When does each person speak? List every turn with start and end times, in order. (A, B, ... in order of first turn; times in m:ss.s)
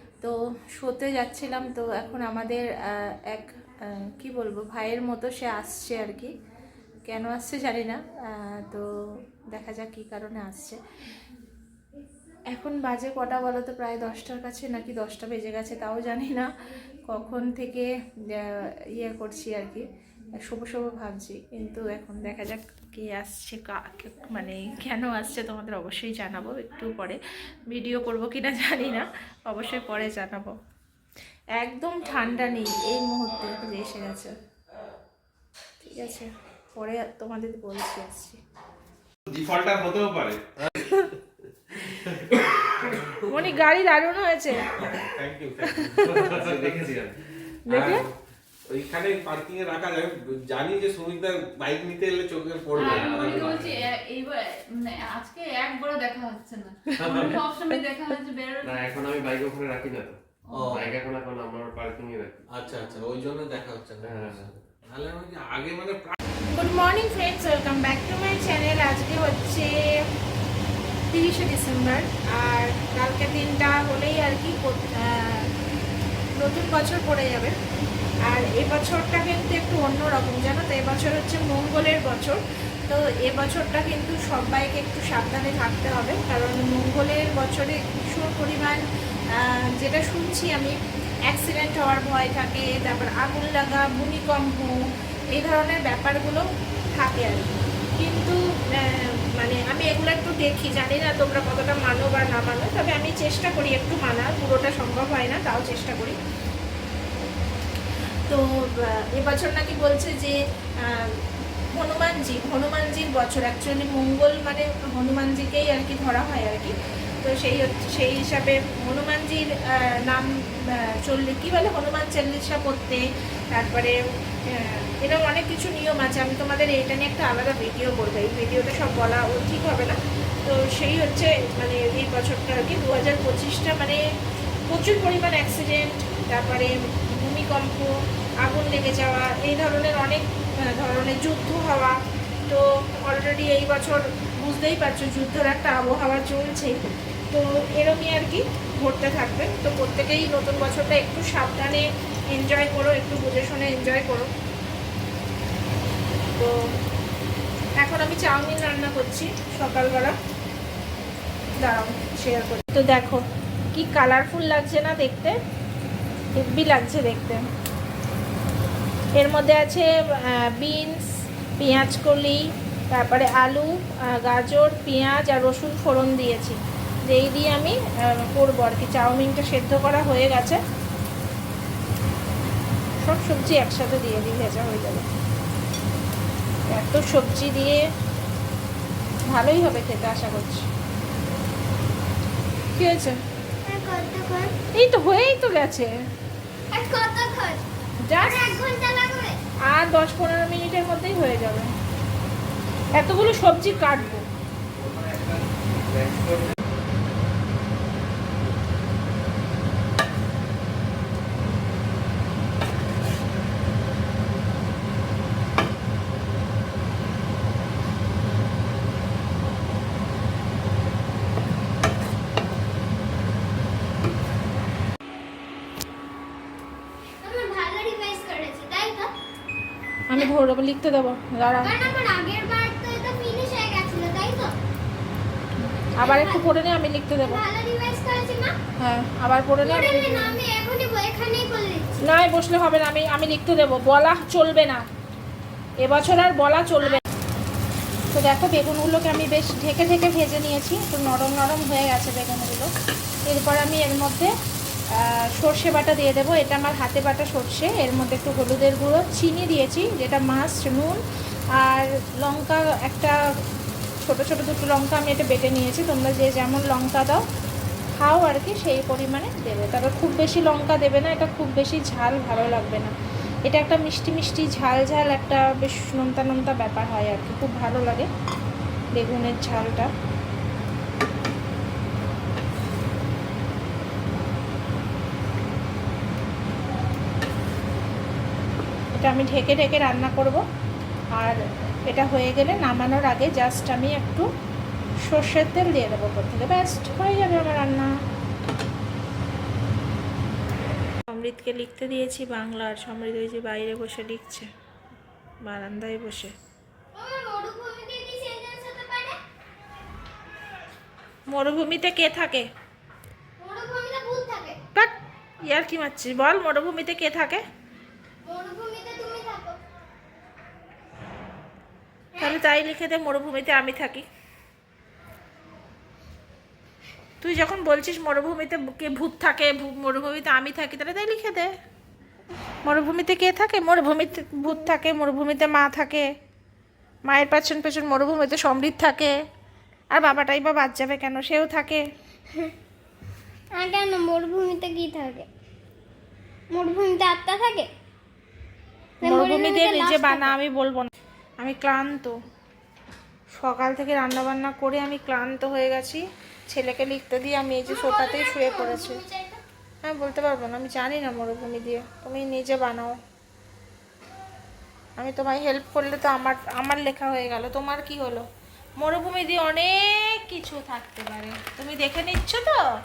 0:00.2-0:03.5 A
0:04.2-0:06.3 A
0:07.1-0:08.0 A
0:08.6-0:08.9 A
0:09.5-0:10.8 A
0:12.5-0:16.5 A
0:17.1-0:19.8 A
0:20.4-0:27.2 A
0:27.7-0:30.5 A
0:31.6-0:34.3 A
0:35.8-0:38.4 A
0:39.3-0:40.7 B
0:40.8-0:41.1 A
0:42.3-0:43.1 B
0:43.3-0:44.7 A
0:44.8-0:47.0 B
0:46.0-0:47.2 C
0:47.7-0:48.1 A
0:47.7-0:48.0 B
0:48.7-0:53.9 B
0:52.7-0:59.1 D
0:52.8-0:53.8 C
0:57.0-0:57.4 C
0:57.0-0:57.3 A
0:58.6-1:00.2 C
1:00.5-1:00.8 D
1:00.6-1:00.8 B
1:00.7-1:02.4 C
1:02.5-1:06.2 B
1:04.0-1:04.5 C
1:06.5-1:09.7 A
1:11.1-1:15.5 A
1:16.4-1:17.6 A
1:18.3-1:28.8 A
1:29.4-1:30.7 A
1:31.3-1:34.8 A
1:35.3-1:46.2 A
1:48.3-1:51.2 A
1:51.7-2:04.0 A
2:04.5-2:14.0 A
2:14.7-2:26.8 A
2:27.3-2:34.3 A
2:37.8-2:40.2 A
2:41.6-2:43.2 A
2:43.7-2:45.4 A
2:46.4-2:47.4 A
2:49.2-2:51.0 A
2:51.6-2:52.4 A
2:52.9-2:53.7 A
2:54.2-2:57.8 A
2:58.3-3:00.6 A
3:03.0-3:05.0 A
3:06.7-3:07.8 A
3:09.3-3:10.7 A
3:12.8-3:13.2 A
3:13.7-3:14.5 E
3:14.8-3:15.9 A
3:16.7-3:17.6 E
3:18.1-3:18.5 A
3:18.2-3:19.4 E
3:19.7-3:21.7 A
3:22.9-3:24.2 A
3:25.0-3:25.2 C
3:47.2-3:49.1 E
3:50.1-3:51.8 A
3:51.6-3:54.6 E
3:56.0-3:56.5 E
3:56.0-3:57.4 A
3:57.2-3:58.6 E
3:58.8-4:00.4 A
3:59.6-4:02.1 E
4:02.0-4:04.8 A
4:05.8-4:07.0 A
4:08.1-4:12.7 A
4:13.3-4:14.3 A
4:15.0-4:21.0 A
4:21.6-4:23.2 A
4:24.0-4:27.2 A
4:28.0-4:32.9 A
4:33.5-4:38.1 A
4:39.0-4:39.9 A
4:48.9-4:50.4 A
4:51.2-4:54.3 A
4:55.0-4:57.9 A
5:01.1-5:04.5 A
5:05.4-5:06.3 A
5:07.0-5:09.2 E
5:11.3-5:12.5 A
5:13.4-5:14.6 E
5:15.5-5:17.4 A
5:18.2-5:19.6 E
5:22.2-5:24.0 A
5:27.2-5:31.5 A
5:32.6-5:36.1 A
5:37.1-5:39.1 A
5:39.9-5:41.8 A
5:43.6-5:45.3 E
5:46.5-5:47.7 E
5:49.0-5:50.4 E
5:49.0-5:52.1 A
5:53.4-5:59.0 A
5:57.7-5:59.4 E
5:59.8-6:03.0 A
6:05.0-6:08.2 A
6:08.8-6:12.6 A